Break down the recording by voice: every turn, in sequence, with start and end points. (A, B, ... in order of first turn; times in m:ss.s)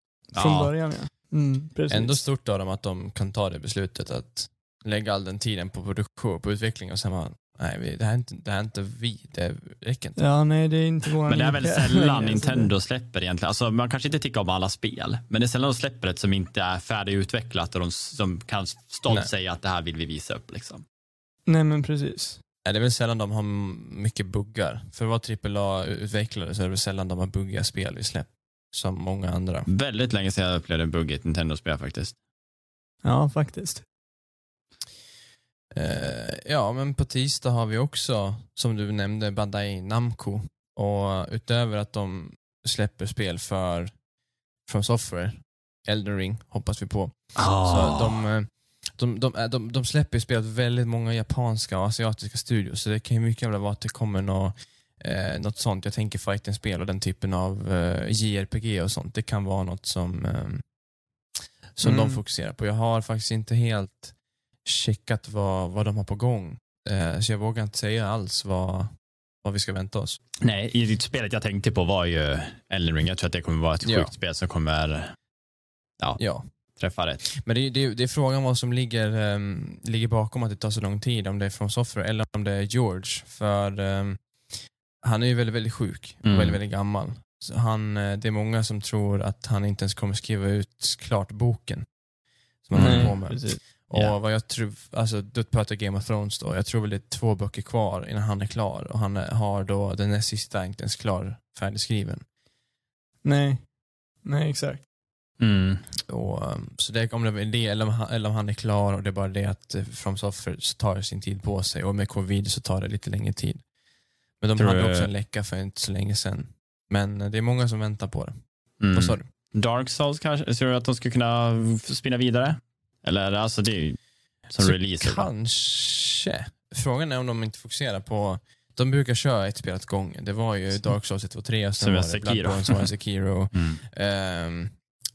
0:00.3-0:00.7 A
0:00.4-0:02.2 B
0:01.9-0:10.2 C
0:10.2-0:12.7 B
0:11.3-0:20.8 A
0:21.5-0:22.4 B
0:22.6-0:29.7 C
0:29.7-0:32.2 A
0:33.0-0:33.8 B
0:35.8-0:44.0 C
0:44.7-1:00.7 C
0:47.4-0:48.1 A
1:01.8-1:08.9 C
1:01.8-1:02.2 B
1:09.4-1:10.2 C
1:10.4-1:15.2 A
1:13.8-1:14.1 C
1:16.2-1:16.5 C
1:16.7-1:17.2 A
1:17.2-1:31.9 C
1:26.2-1:26.6 A
1:32.6-1:42.2 C
1:32.7-1:33.2 A
1:32.8-1:33.6 B
1:43.2-1:43.7 B
1:44.2-1:44.8 B
1:45.4-1:45.8 A
1:46.1-1:53.6 C
1:54.4-1:58.4 C
1:54.6-1:55.1 A
1:58.8-2:04.0 A
1:58.9-1:59.3 C
2:04.5-2:05.3 A
2:04.6-2:14.8 C
2:11.8-2:12.9 A
2:13.5-2:13.8 A